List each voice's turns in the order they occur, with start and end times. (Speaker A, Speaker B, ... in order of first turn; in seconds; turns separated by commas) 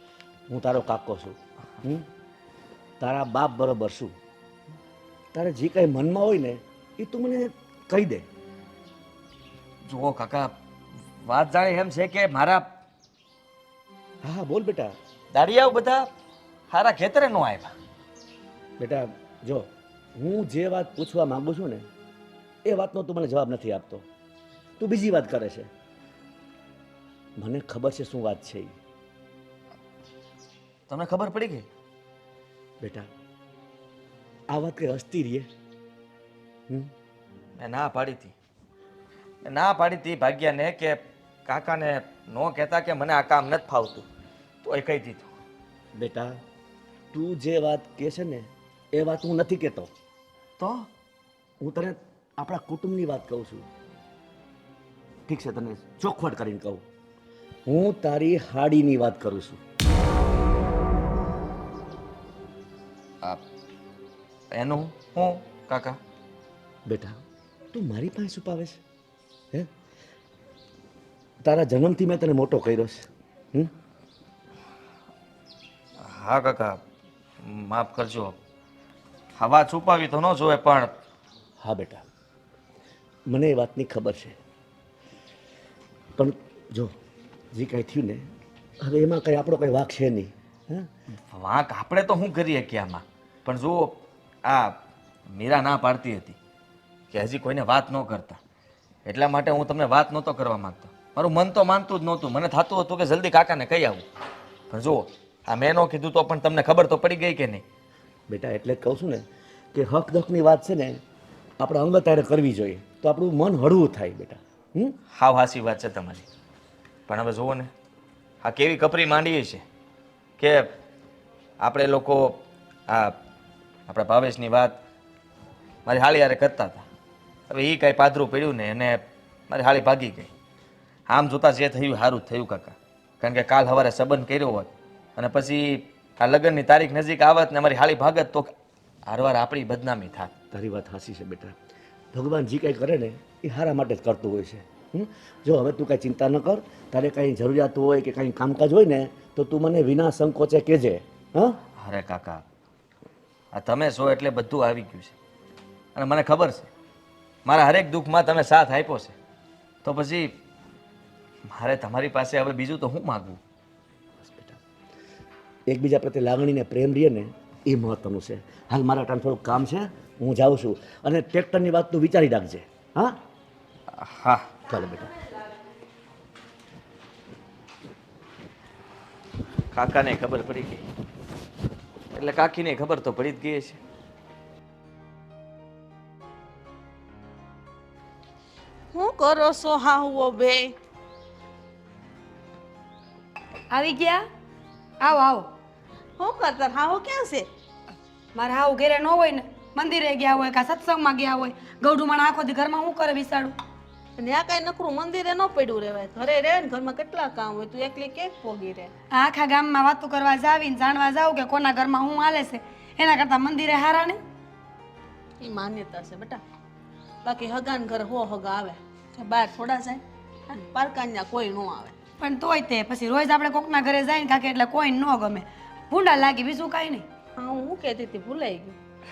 Speaker A: 0.5-2.0, Speaker A: 3.0-4.1, Speaker A: 5.3-8.2, Speaker B: 9.8-10.5, Speaker B: 11.2-12.7, Speaker A: 14.2-14.9, Speaker B: 15.3-16.1, Speaker B: 16.7-17.7, Speaker A: 18.8-21.8, Speaker A: 22.6-24.0, Speaker A: 24.8-25.7, Speaker A: 27.4-28.7, Speaker B: 30.9-31.7, Speaker A: 32.8-33.1, Speaker A: 34.5-35.5, Speaker B: 37.6-38.3, Speaker B: 39.4-44.0, Speaker B: 44.6-45.3, Speaker A: 45.9-46.4, Speaker A: 47.1-49.9, Speaker B: 50.6-50.9, Speaker A: 51.6-53.7, Speaker A: 55.3-56.8, Speaker A: 57.7-59.6, Speaker B: 64.5-66.0, Speaker A: 66.8-67.2, Speaker A: 67.7-68.8, Speaker A: 71.4-73.7, Speaker B: 76.0-76.8, Speaker B: 77.4-78.4, Speaker B: 79.4-80.9, Speaker A: 81.6-82.0, Speaker A: 83.3-84.4, Speaker A: 86.2-86.9, Speaker A: 87.5-88.2, Speaker A: 88.8-90.9, Speaker B: 91.3-94.8, Speaker B: 95.3-96.3, Speaker B: 97.1-98.4, Speaker B: 99.0-104.0, Speaker B: 104.7-107.6, Speaker A: 108.3-111.0, Speaker A: 111.6-115.0, Speaker B: 115.1-116.2, Speaker B: 117.1-117.7, Speaker B: 118.4-119.6, Speaker B: 120.4-120.7, Speaker B: 121.6-123.2, Speaker B: 123.9-124.8, Speaker B: 125.8-126.8, Speaker B: 127.5-130.3, Speaker B: 131.1-138.5, Speaker B: 139.1-140.3, Speaker A: 140.5-141.5, Speaker A: 142.1-151.6, Speaker B: 151.8-152.4, Speaker B: 153.5-155.1, Speaker B: 155.9-156.7, Speaker B: 157.4-159.1, Speaker B: 159.8-160.3, Speaker B: 161.5-163.4, Speaker A: 164.2-164.6, Speaker A: 165.7-173.2, Speaker B: 173.9-174.4, Speaker A: 174.7-175.1, Speaker B: 179.7-180.8, Speaker B: 182.1-183.8, Speaker C: 188.9-190.7, Speaker D: 193.7-194.2, Speaker D: 195.0-195.5, Speaker C: 196.2-197.5, Speaker D: 198.3-203.5, Speaker C: 204.2-208.9, Speaker D: 209.1-214.2, Speaker C: 215.4-216.4, Speaker C: 217.2-221.9, Speaker D: 222.2-227.1, Speaker C: 227.3-228.8